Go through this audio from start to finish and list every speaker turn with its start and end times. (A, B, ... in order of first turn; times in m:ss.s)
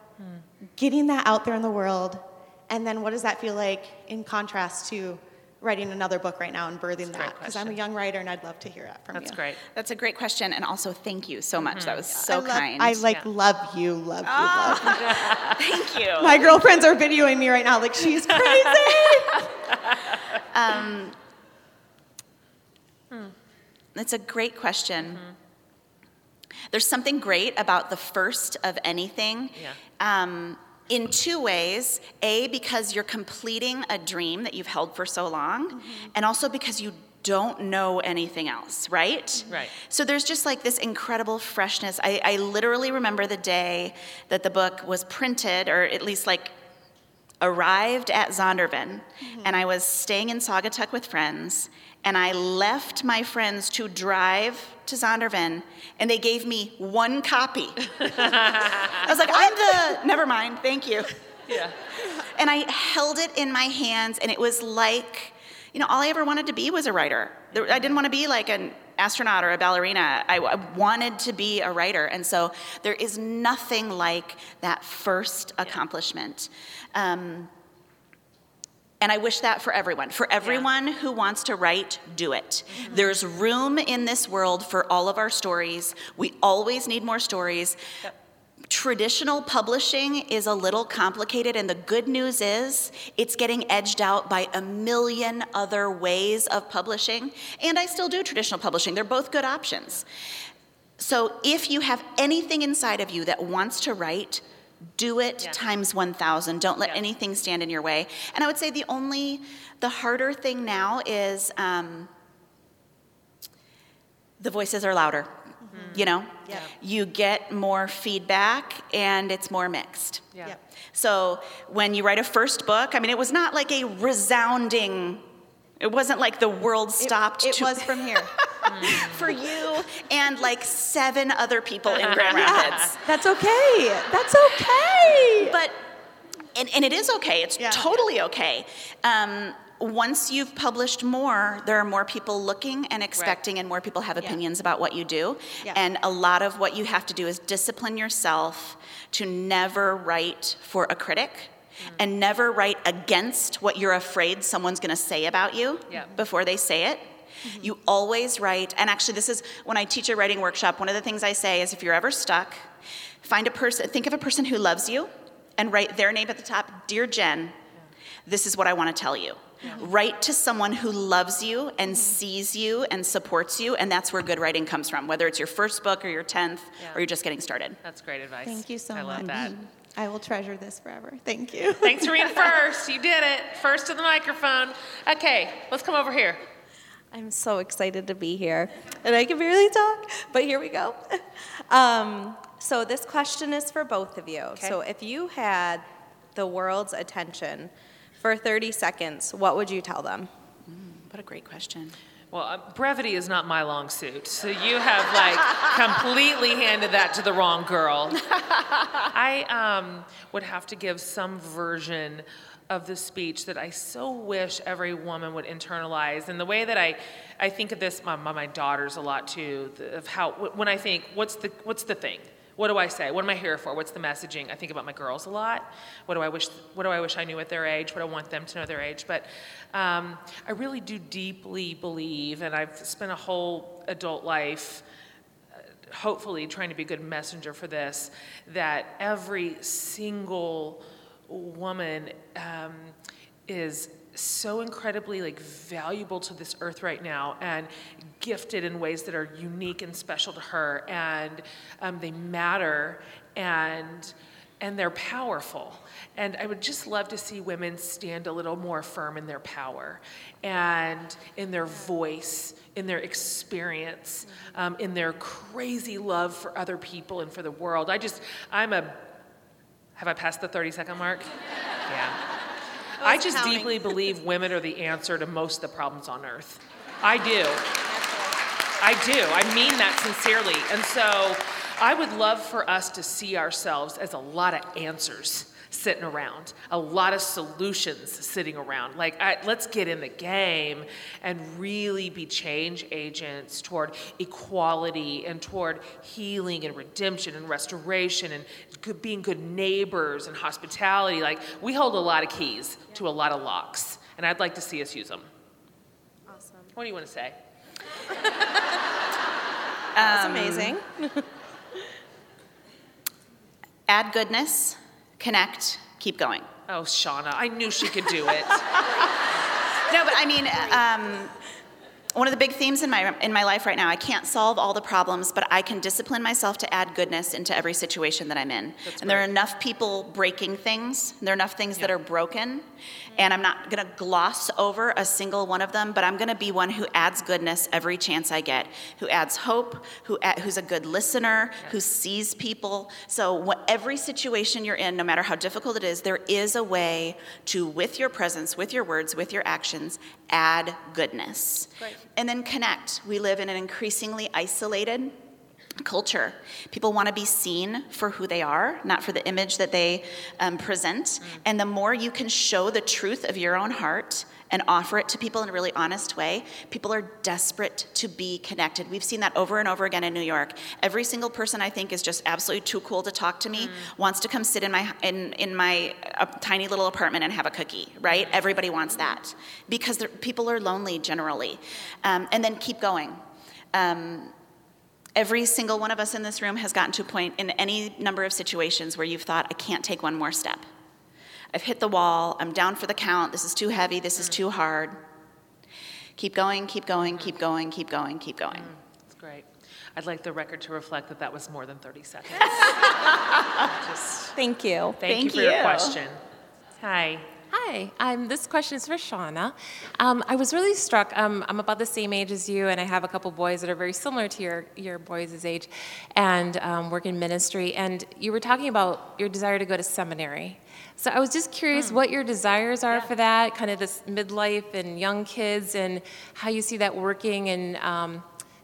0:00.2-0:00.4 A
0:00.8-0:09.4 B
0:07.1-0:07.8 A
0:09.1-0:09.6 A
0:09.8-0:13.0 C
0:11.7-0:12.1 A
0:12.1-0:15.3 B
0:14.2-0:16.5 C
0:14.9-0:15.6 A
0:16.2-0:19.2 B
0:18.2-0:20.4 A
0:18.4-0:19.4 C
0:20.5-0:21.2 C
0:24.0-0:25.2 C
0:25.0-0:25.4 A
0:26.7-0:46.6 C
0:29.6-0:29.8 A
0:35.8-0:36.1 B
0:39.5-0:39.7 A
0:47.4-0:58.2 C
0:49.3-0:49.6 B
0:58.0-0:59.1 A
0:59.0-1:01.1 C
0:59.4-0:59.8 B
1:01.5-1:01.8 A
1:02.3-1:17.5 C
1:07.5-1:07.9 A
1:19.0-1:27.8 C
1:20.4-1:20.7 A
1:22.7-1:23.1 A
1:28.7-1:40.1 C
1:41.0-1:44.4 C
1:45.0-1:52.1 C
1:54.4-1:55.4 C
1:55.7-1:56.6 B
1:55.7-1:56.7 A
1:55.9-2:00.3 C
2:00.9-2:05.2 C
2:05.8-2:07.9 C
2:07.0-2:08.3 D
2:08.7-2:09.3 A
2:08.8-2:13.0 C
2:11.9-2:12.9 A
2:12.4-2:15.5 D
2:14.4-2:15.3 B
2:15.4-2:15.8 C
2:16.6-2:42.7 C
2:17.6-2:17.8 B
2:35.9-2:36.2 A
2:37.4-2:37.7 B
2:43.2-2:47.6 C
2:48.2-2:57.8 C
2:51.9-2:52.1 B
2:57.8-2:59.6 A
2:58.4-3:02.6 B
2:59.2-2:59.5 C
3:01.8-3:06.4 A
3:07.1-3:20.3 D
3:20.7-3:22.0 C
3:22.3-3:28.3 A
3:29.0-3:54.8 A
3:55.9-4:03.0 A
4:03.5-4:29.0 A
4:30.0-4:31.3 A
4:31.9-4:32.2 A
4:33.0-4:34.0 B
4:33.0-4:37.6 A
4:38.8-5:05.3 A
5:06.4-5:06.6 B
5:06.7-5:07.4 A
5:10.0-5:10.8 C
5:10.0-5:11.2 D
5:13.9-5:16.5 C
5:16.7-5:18.7 A
5:19.8-5:21.4 C
5:22.2-5:55.2 C
5:28.8-5:29.3 A
5:55.8-6:24.3 C
6:13.6-6:13.9 A
6:18.1-6:18.4 A
6:25.2-6:30.7 C
6:31.5-6:35.0 C
6:36.2-6:38.7 C
6:38.5-6:42.9 A
6:43.6-6:44.4 A
6:44.4-6:45.0 D
6:45.0-6:46.2 A
6:45.0-6:46.0 C
6:46.8-6:47.3 A
6:47.5-7:08.2 E
7:01.7-7:02.0 A